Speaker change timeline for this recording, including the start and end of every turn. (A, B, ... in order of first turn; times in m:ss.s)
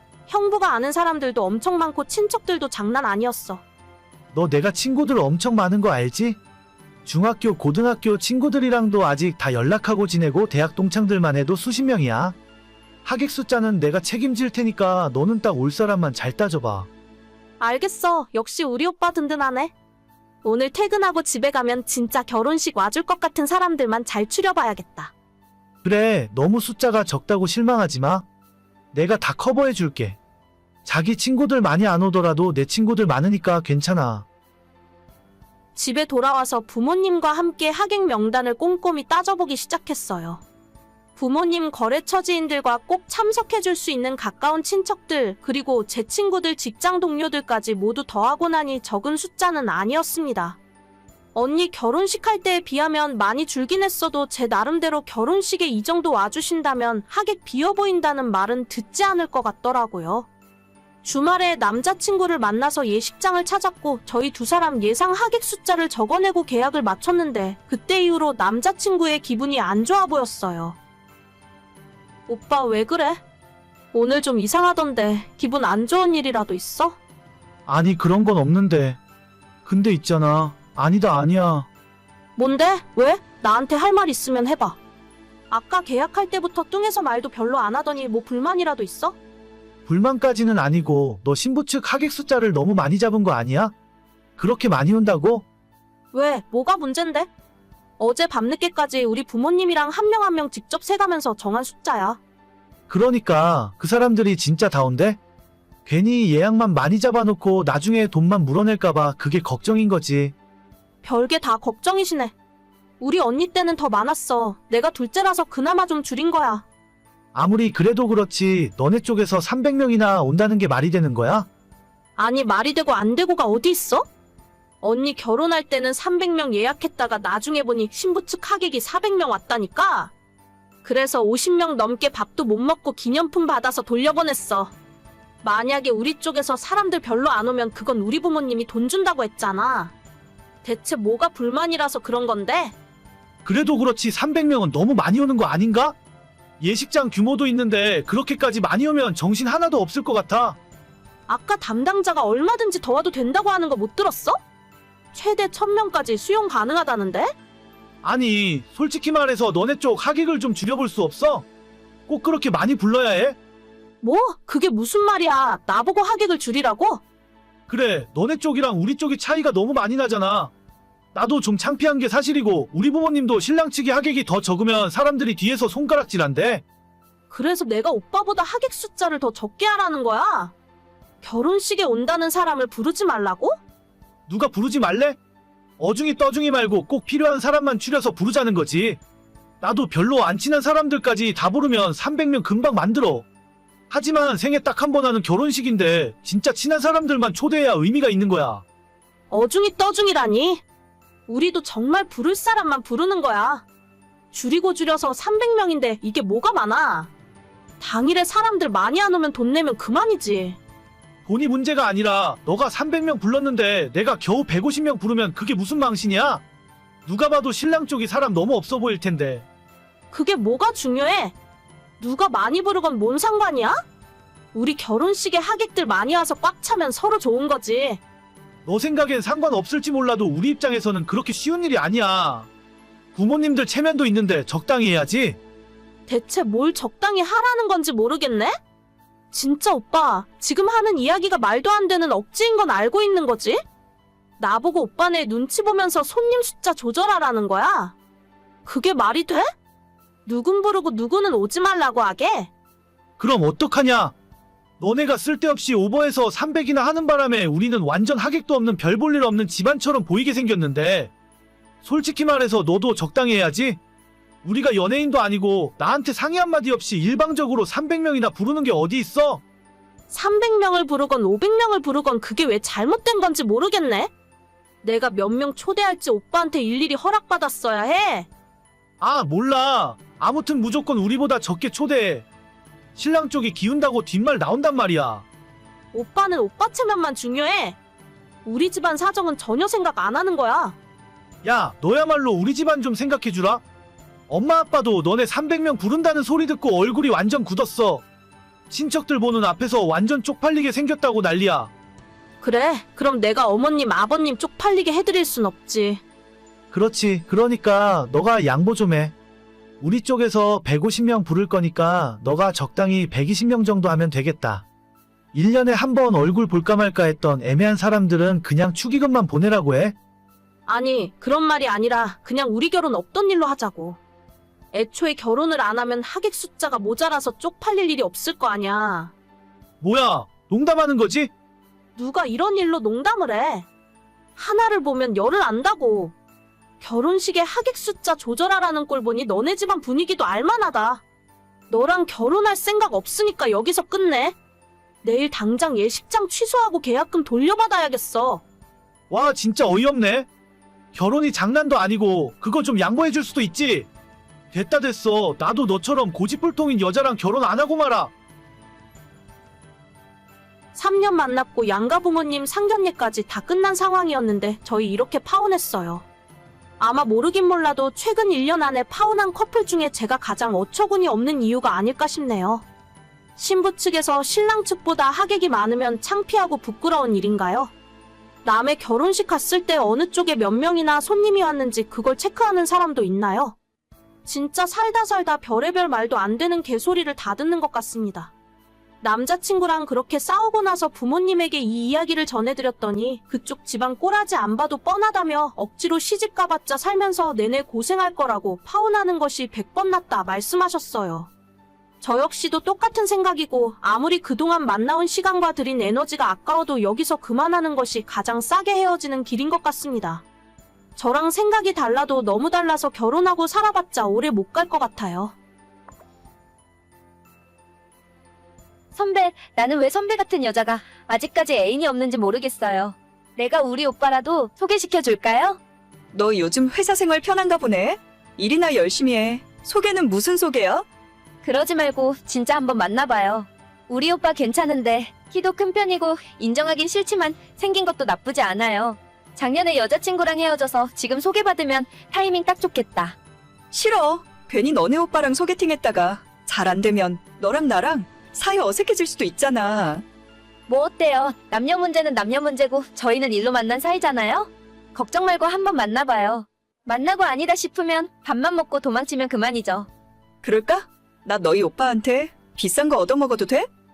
0:00.3-0:03.6 A
0:04.3-0:06.4 B
0:07.0-0:12.4 B
0:13.0-0:16.9 B
0:17.6-0:19.7 A
0:20.4-0:25.1 A
0:25.8-0:28.2 B
0:28.9-0:30.2 B
0:30.8-0:34.2 B
0:35.8-0:40.4 A
0:41.2-0:50.6 A
0:51.3-1:00.3 A
1:01.0-1:10.8 A
1:12.3-1:13.2 A
1:13.9-1:17.0 A
1:17.7-1:19.0 B
1:19.6-1:21.7 B
1:22.4-1:24.8 A
1:25.5-1:29.2 A
1:29.8-1:33.7 B
1:34.4-1:35.4 B
1:36.1-1:37.3 A
1:38.0-1:42.2 A
1:42.9-1:45.2 B
1:45.8-1:50.3 B
1:51.0-1:52.3 A
1:53.0-1:56.6 A
1:57.3-2:01.5 B
2:02.2-2:04.0 A
2:04.8-2:10.1 A
2:10.8-2:14.7 A
2:15.4-2:19.9 A
2:20.6-2:22.7 A
2:23.4-2:26.0 B
2:26.6-2:30.6 B
2:31.3-2:34.4 A
2:35.1-2:37.3 A
2:38.0-2:41.4 B
2:42.1-2:43.4 B
2:44.0-2:47.0 A
2:47.7-2:50.5 B
2:51.1-2:56.6 B
2:57.3-3:00.5 A
3:01.2-3:03.6 A
3:04.3-3:05.2 B
3:05.8-3:09.0 B
3:09.6-3:13.2 B
3:13.9-3:18.6 B
3:19.3-3:20.6 A
3:21.3-3:23.6 A
3:24.3-3:27.1 A
3:27.8-3:30.6 A
3:31.2-3:36.4 B
3:37.0-3:39.4 B
3:40.1-3:41.3 A
3:42.0-3:43.8 A
3:44.5-3:48.0 A
3:48.6-3:52.5 B
3:53.1-3:55.4 B
3:56.1-3:58.5 A
3:59.3-4:03.6 A
4:04.4-4:08.0 A
4:08.6-4:09.5 A
4:10.2-4:12.5 A
4:13.2-4:14.1 B
4:14.8-4:21.1 B
4:21.8-4:23.8 B
4:24.4-4:29.4 B
4:30.1-4:34.1 A
4:34.8-4:38.3 A
4:39.0-4:42.3 B
4:42.9-4:45.2 B
4:45.9-4:47.8 A
4:48.4-4:50.8 A
4:51.4-4:53.6 B
4:54.3-4:58.0 B
4:58.7-5:01.7 B
5:02.4-5:06.0 A
5:06.7-5:09.1 B
5:09.8-5:14.6 B
5:15.3-5:20.0 B
5:20.7-5:24.0 A
5:24.7-5:29.1 A
5:29.8-5:31.3 B
5:32.0-5:33.7 A
5:34.4-5:36.1 A
5:36.8-5:41.0 A
5:41.7-5:44.4 A
5:45.0-5:48.4 A
5:49.1-5:50.3 B
5:50.9-5:53.9 B
5:54.5-5:58.1 B
6:00.7-6:06.0 A
6:06.8-6:12.6 A
6:13.4-6:17.7 A
6:18.4-6:23.5 A
6:24.2-6:28.3 A
6:29.0-6:41.3 A
6:42.0-6:50.2 A
6:51.0-6:55.3 A
6:58.9-7:05.6 C
7:06.1-7:10.8 D
7:11.4-7:23.1 C
7:23.7-7:30.0 D
7:30.7-7:39.9 C
7:40.4-7:43.7 D